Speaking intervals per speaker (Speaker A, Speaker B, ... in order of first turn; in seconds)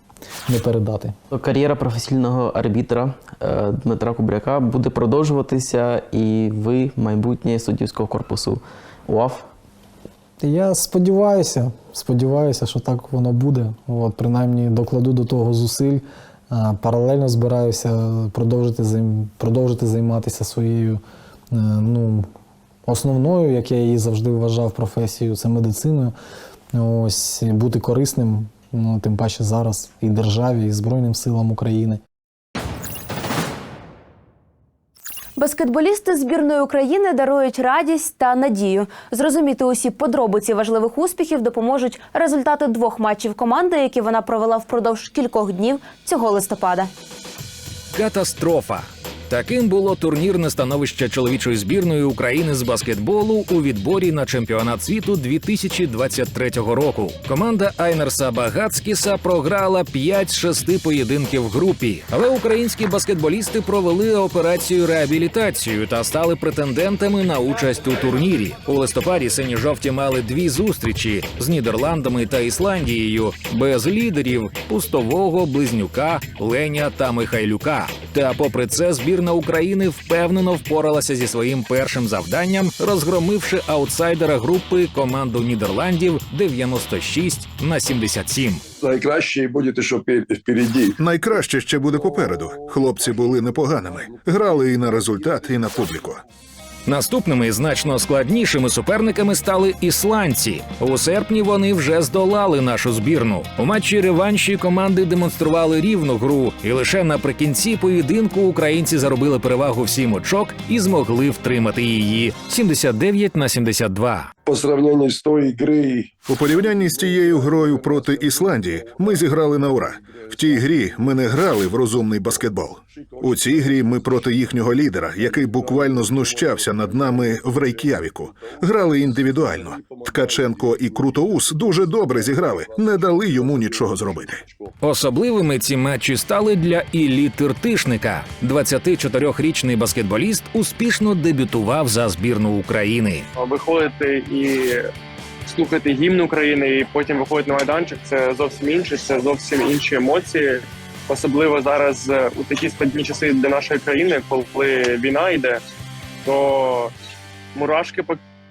Speaker A: 0.5-1.1, 10.4-22.3, 22.9-26.1, 26.7-32.0
Speaker B: 1.3-9.5
Speaker C: 35.4-46.9
Speaker D: 47.9-88.6, 96.8-114.3, 134.8-143.2
Speaker E: 88.8-91.0, 114.4-116.1
Speaker F: 91.0-96.2, 116.3-134.4
Speaker G: 143.4-144.9, 145.5-155.6, 156.2-156.9, 157.5-158.2